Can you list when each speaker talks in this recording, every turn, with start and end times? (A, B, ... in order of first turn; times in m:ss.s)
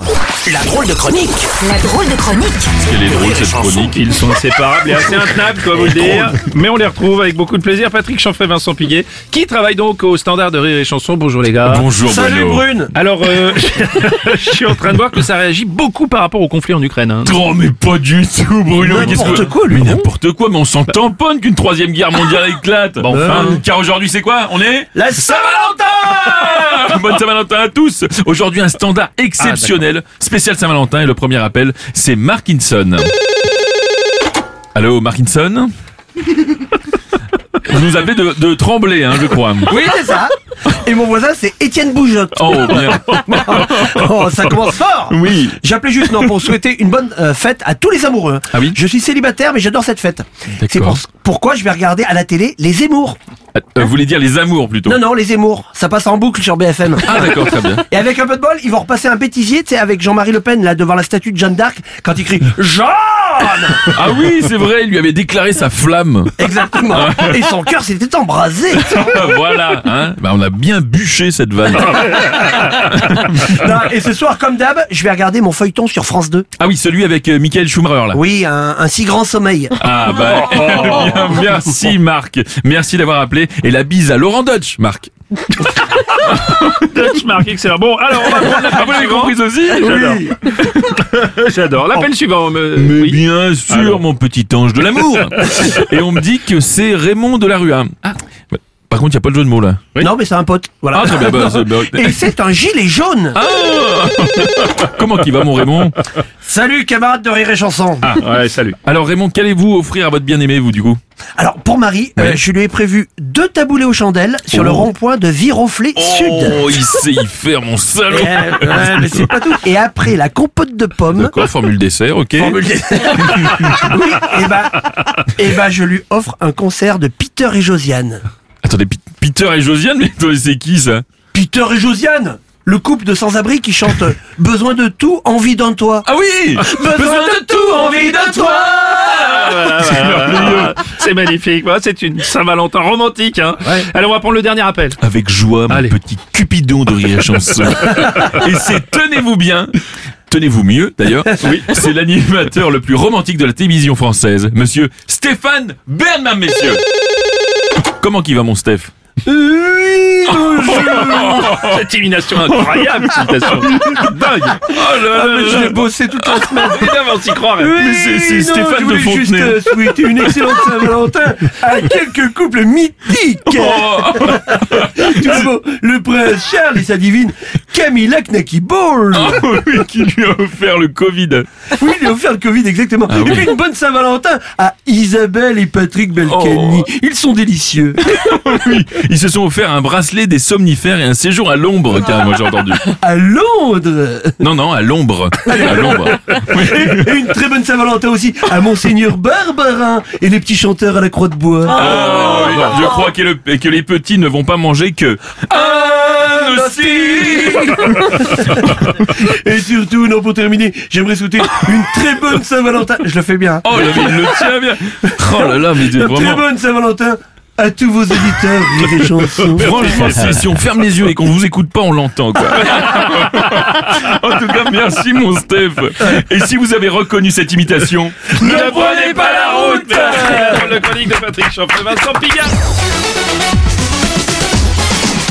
0:00.5-0:01.3 A
0:00.5-0:03.8 B
0:02.8-0:04.1 C
0:03.9-0:11.9 D
0:11.6-0:12.7 C
0:12.0-0:13.0 A
0:13.0-0:17.4 D
0:17.2-0:33.1 C
0:18.8-0:20.1 A
0:23.0-0:23.6 D
0:23.1-0:23.6 A
0:25.0-0:27.0 A
0:29.4-0:29.8 D
0:34.8-0:35.7 C
0:37.6-0:39.8 C
0:39.7-0:53.2 A
0:42.4-0:46.4 C
0:48.5-0:48.8 C
0:50.6-0:51.0 C
0:53.5-0:55.0 C
0:54.8-1:04.0 A
0:57.0-0:57.8 C
1:03.8-1:07.5 C
1:06.4-1:09.2 A
1:08.7-1:13.7 C
1:12.0-1:12.6 D
1:13.3-1:16.5 A
1:16.6-1:18.2 C
1:18.1-1:19.8 A
1:19.8-1:25.1 C
1:20.4-1:21.4 D
1:26.0-1:34.0 D
1:26.2-1:26.9 C
1:28.2-1:30.2 C
1:29.8-1:30.6 A
1:32.8-1:39.9 C
1:40.0-1:43.4 A
1:40.9-1:42.3 C
1:43.4-1:46.0 C
1:46.4-1:48.2 A
1:48.2-1:48.8 D
1:48.8-1:51.0 C
1:51.4-1:56.6 A
1:54.5-1:54.9 C
1:56.0-1:59.3 C
1:58.1-2:01.3 A
2:01.1-2:04.0 C
2:02.4-2:08.2 A
2:08.6-2:11.0 C
2:11.3-2:19.4 A
2:16.0-2:20.8 C
2:19.1-2:25.0 D
2:25.0-2:29.7 C
2:30.3-2:36.8 C
2:38.0-2:38.9 C
2:39.2-2:41.5 A
2:40.3-2:46.6 C
2:41.4-2:44.7 D
2:45.0-2:46.9 A
2:46.5-2:47.8 D
2:47.6-2:59.4 A
2:47.8-2:49.6 C
2:53.5-2:55.5 C
2:59.1-3:01.5 C
3:01.8-3:08.1 A
3:03.1-3:03.5 C
3:06.2-3:06.9 C
3:08.1-3:12.9 C
3:12.9-3:14.4 A
3:14.4-3:17.3 C
3:15.4-3:22.2 A
3:21.7-3:28.9 C
3:21.9-3:22.9 D
3:25.5-3:40.3 A
3:33.6-3:36.4 C
3:39.4-3:50.7 C
3:48.3-3:52.6 D